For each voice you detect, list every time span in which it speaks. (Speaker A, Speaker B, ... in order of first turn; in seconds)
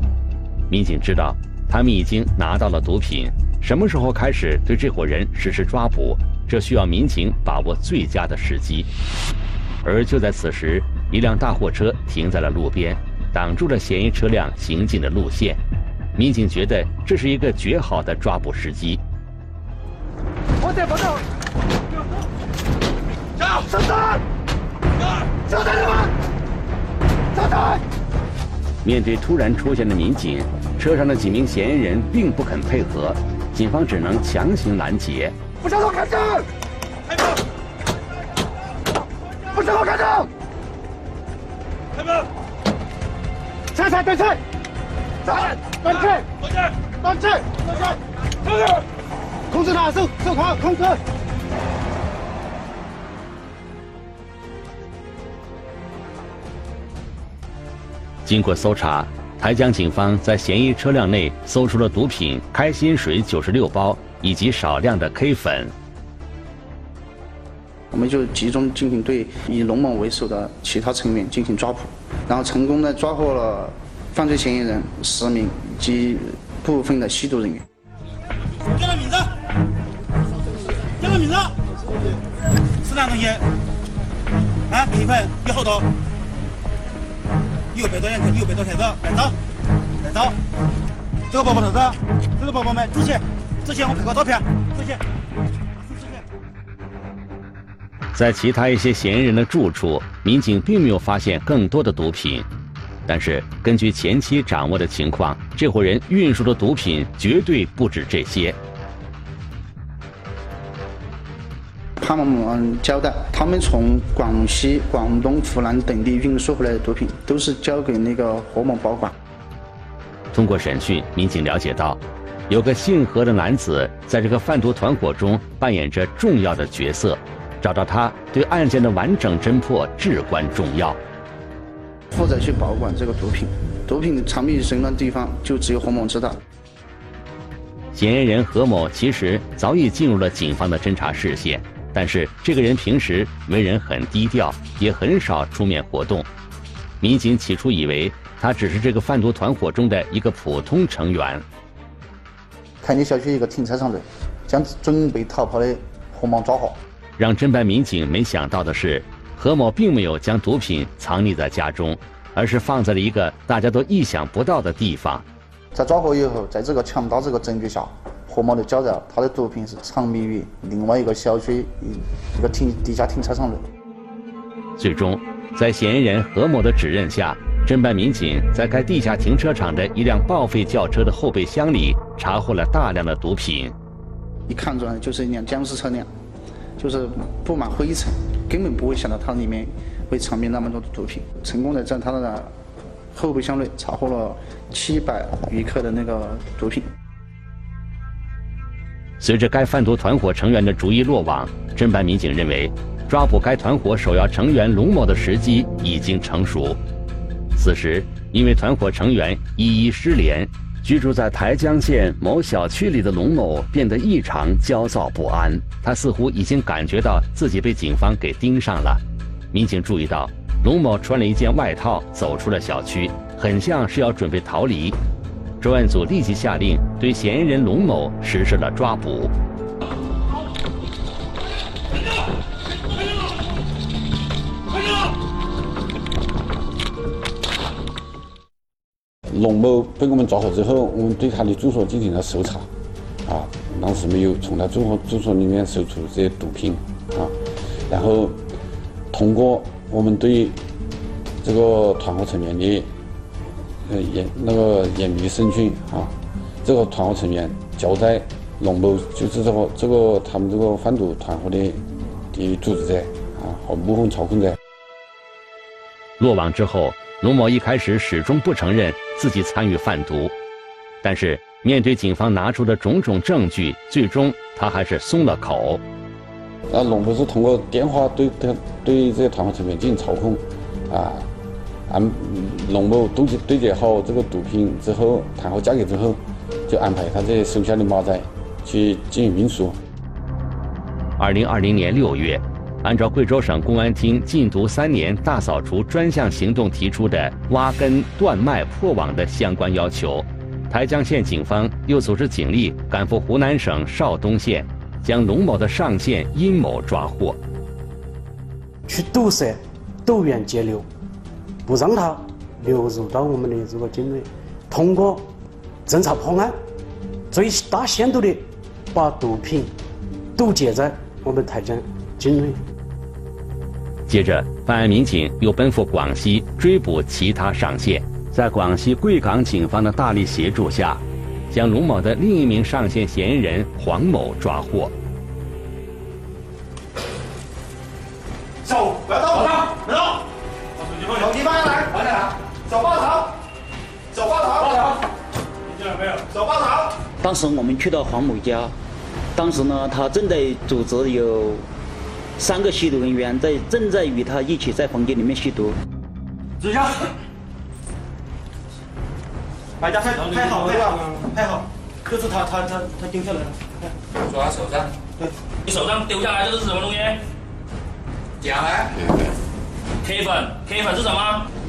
Speaker A: 0.7-8.9, 9.8-15.6, 16.1-19.0, 28.8-35.4, 58.2-65.7, 98.1-102.5, 103.0-108.6, 120.3-131.0, 137.9-146.3, 147.0-151.4, 157.2-165.2, 174.8-183.7, 199.2-206.8, 207.5-225.0, 225.6-229.3, 266.2-270.3, 271.0-275.8, 291.2-307.4, 324.1-334.9
Speaker B: 35.6-36.2, 39.5-40.2, 43.8-44.4, 45.2-46.5, 47.0-47.9, 49.5-51.0, 78.7-79.3, 81.0-81.5, 82.8-83.4, 84.7-85.9, 87.7-89.3, 90.0-90.3, 91.3-95.0, 95.8-96.2, 338.6-339.7, 340.8-342.1, 342.6-343.3, 344.1-344.9, 345.7-346.9, 356.6-357.0, 359.8-363.9
Speaker C: 67.9-77.6, 112.0-119.1, 132.1-136.4, 152.8-156.8, 165.7-173.6, 184.5-186.1, 186.8-192.5, 193.1-196.9
Speaker D: 239.3-242.7, 243.2-247.3, 247.9-248.4, 249.1-250.6, 251.4-252.9, 253.8-264.6, 276.7-281.3, 281.9-289.8
Speaker E: 308.9-310.9, 311.6-315.3, 315.9-316.5, 317.3-319.7, 320.4-322.6
Speaker F: 347.2-348.7, 349.3-351.7, 352.4-355.8
Speaker G: 364.3-364.9, 365.6-367.2, 368.4-368.9, 370.0-371.5